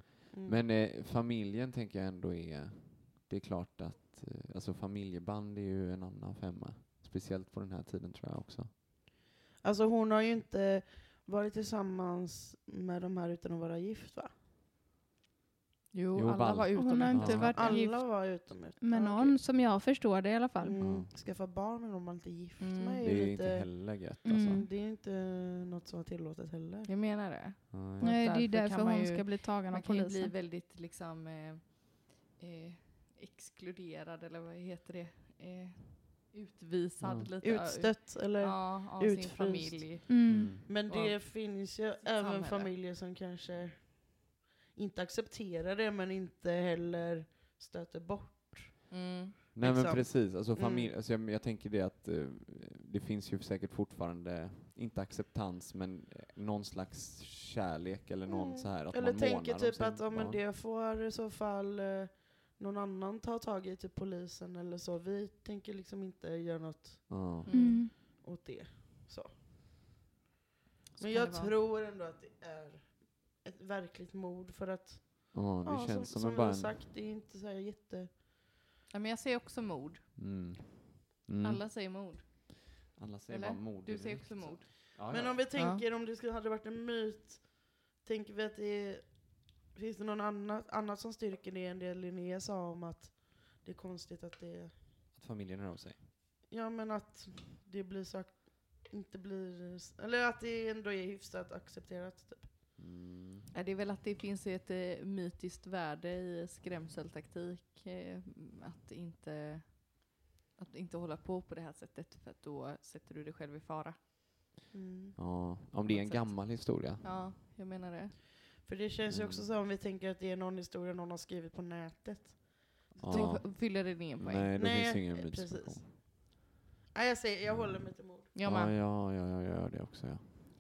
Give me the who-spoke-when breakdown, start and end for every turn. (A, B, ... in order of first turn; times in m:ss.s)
0:00.3-0:00.6 A
0:00.4-0:08.7 B
0:09.6-0:14.3 A
0:15.9-0:17.6 C
0:16.1-0:17.7 B
0:16.8-0:20.8 D
0:17.5-0:19.4 A
0:20.6-0:26.9 A
0:20.8-0:21.1 B
0:22.6-0:23.0 C
0:23.0-0:24.6 B
0:24.2-0:24.7 D
0:26.9-0:42.7 C
0:27.7-0:28.2 B
0:28.0-0:30.3 D
0:37.0-0:37.3 B
0:37.4-0:48.9 A
0:40.1-0:40.6 D
0:40.3-0:40.7 B
0:48.9-0:49.4 C
0:49.6-1:00.4 B
0:49.6-0:50.9 A
0:58.3-1:07.1 A
1:07.1-1:07.8 B
1:07.5-1:07.8 C
1:07.5-1:07.9 D
1:07.8-1:09.3 A
1:11.0-1:11.5 C
1:11.0-1:18.2 A
1:15.3-1:16.7 B
1:18.9-1:20.0 C
1:20.2-1:21.6 B
1:21.4-1:22.6 C
1:23.0-1:25.5 B
1:23.3-1:25.0 C
1:25.1-1:34.7 A
1:25.6-1:25.8 C
1:35.1-1:36.0 B
1:36.5-1:42.5 A
1:42.8-1:43.5 B
1:43.5-1:54.0 C
1:54.7-1:55.2 A
1:55.2-1:57.1 B
1:55.9-1:58.2 C
1:58.6-2:03.4 A
1:59.1-1:59.5 B
2:03.0-2:05.9 B
2:03.1-2:04.5 C
2:04.6-2:06.1 A
2:06.9-2:08.3 A
2:07.5-2:07.8 B
2:08.3-2:08.7 C
2:08.4-2:10.3 B